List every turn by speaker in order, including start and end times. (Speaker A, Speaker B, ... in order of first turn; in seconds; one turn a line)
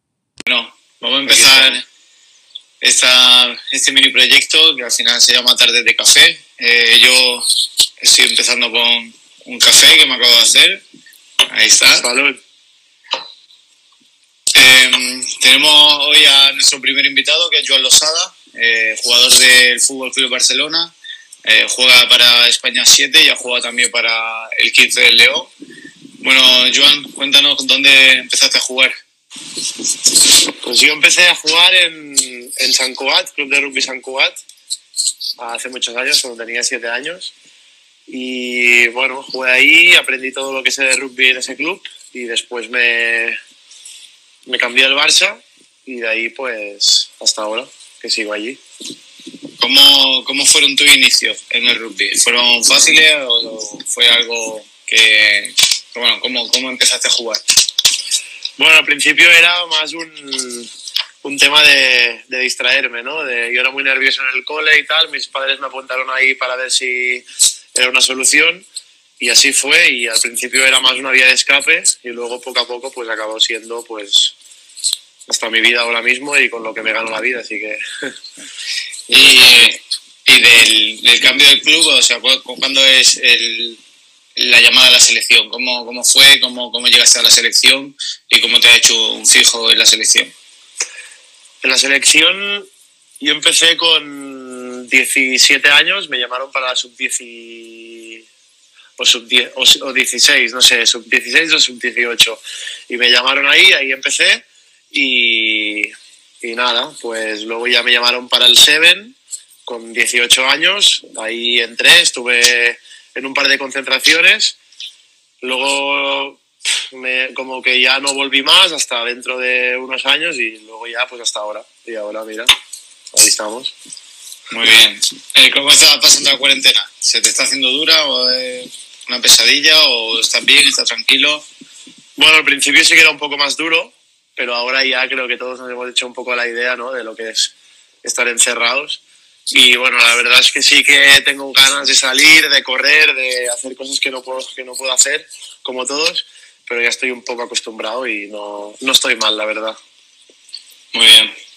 Speaker A: 0.4-1.8
Speaker A: 2.8-7.5
Speaker A: 8.0-10.8
Speaker A: 11.5-12.1
Speaker B: 12.0-12.4
Speaker A: 14.5-20.9
Speaker A: 21.4-25.5
Speaker A: 26.2-28.9
Speaker B: 30.6-34.4
Speaker B: 35.4-37.3
Speaker B: 38.1-43.4
Speaker B: 44.5-48.6
Speaker A: 49.6-57.4
Speaker B: 58.6-60.7
Speaker B: 61.2-67.2
Speaker B: 67.7-68.6
Speaker B: 69.2-74.3
Speaker B: 75.3-77.8
Speaker B: 79.1-79.7
Speaker A: 79.1-83.8
Speaker A: 84.3-90.3
Speaker B: 91.6-92.7
Speaker B: 93.2-98.2
Speaker B: 99.0-114.6
Speaker B: 115.4-122.5
Speaker B: 123.1-123.7
Speaker A: 124.5-131.4
Speaker B: 132.2-149.8
Speaker A: 150.9-151.3